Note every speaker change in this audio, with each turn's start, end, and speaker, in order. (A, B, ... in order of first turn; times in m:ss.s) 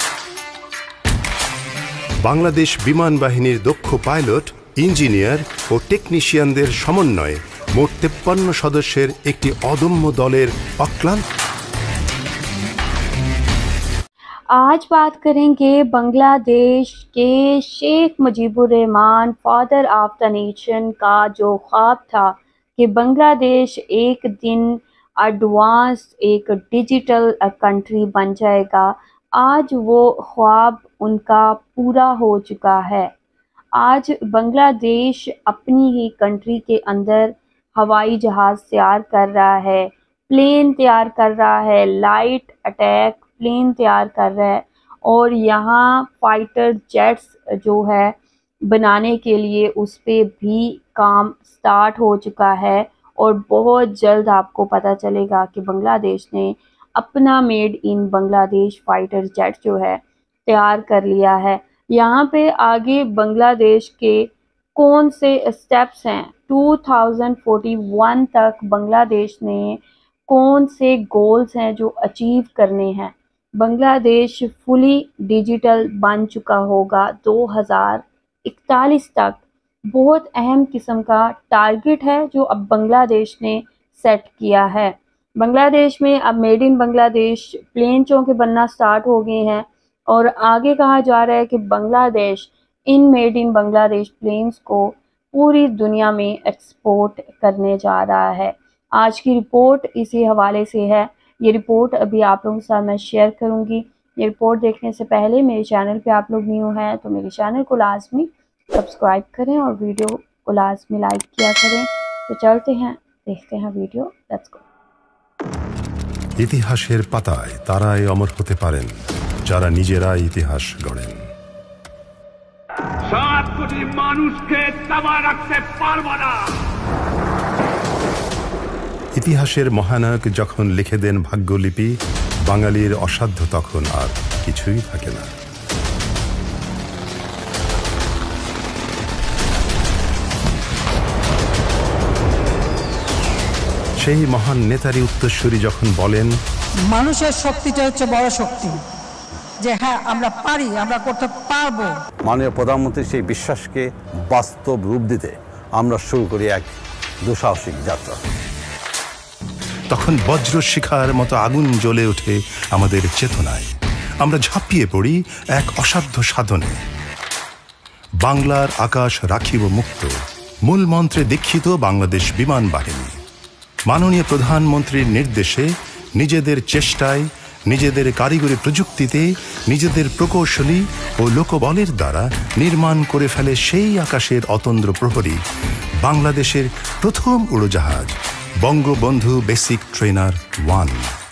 0:02.2-0:11.3 A
0:14.5-0:33.1 B
0:33.8-1:54.6 B
1:56.4-2:01.3 A
2:03.0-2:06.5 C
2:09.2-2:15.3 A
2:24.0-2:26.4 A
2:26.8-2:28.9 D
2:29.6-2:32.1 D
2:32.2-2:36.7 E
2:37.2-2:38.2 E
2:39.9-2:46.8 A
2:48.2-2:50.1 A
2:50.7-2:53.2 A
2:53.9-3:05.4 A
3:06.0-3:11.1 A